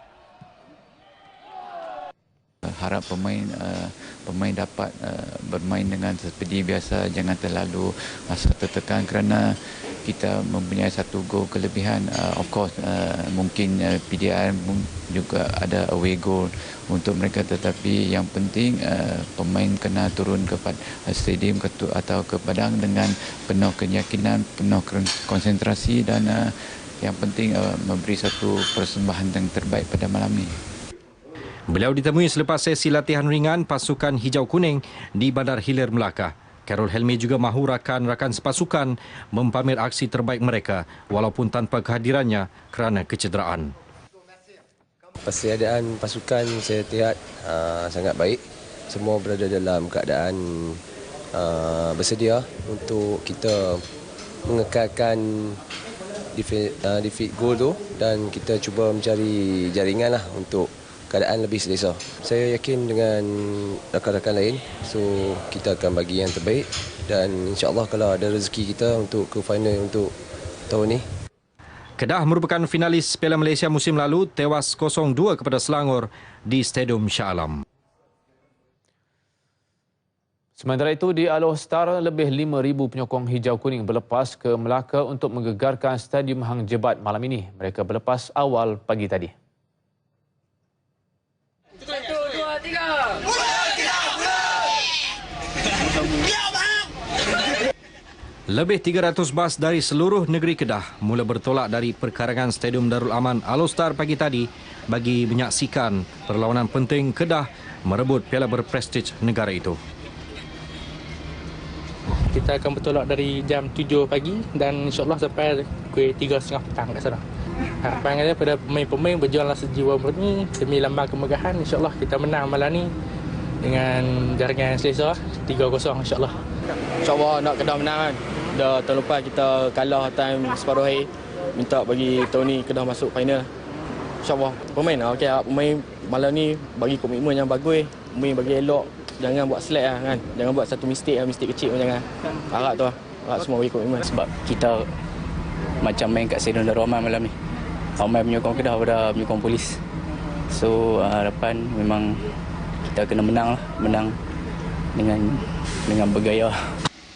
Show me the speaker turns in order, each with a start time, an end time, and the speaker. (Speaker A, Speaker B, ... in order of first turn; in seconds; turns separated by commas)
Speaker A: 2.6-30.5, Speaker B: 31.7-43.7, Speaker C: 45.2-50.8, Speaker C: 51.3-53.8, Speaker C: 54.5-55.6, Speaker C: 56.3-70.1, Speaker C: 70.7-71.1, Speaker B: 72.0-77.6, Speaker D: 80.6-89.3, Speaker B: 98.5-109.8, Speaker E: 112.3-117.2, Speaker E: 117.8-122.9, Speaker E: 123.6-126.3, Speaker F: 127.0-133.5, Speaker F: 134.2-144.1, Speaker G: 144.1-144.9, Speaker G: 145.8-147.3, Speaker G: 148.0-149.8, Speaker G: 150.5-152.2, Speaker G: 152.9-154.2, Speaker G: 154.9-156.6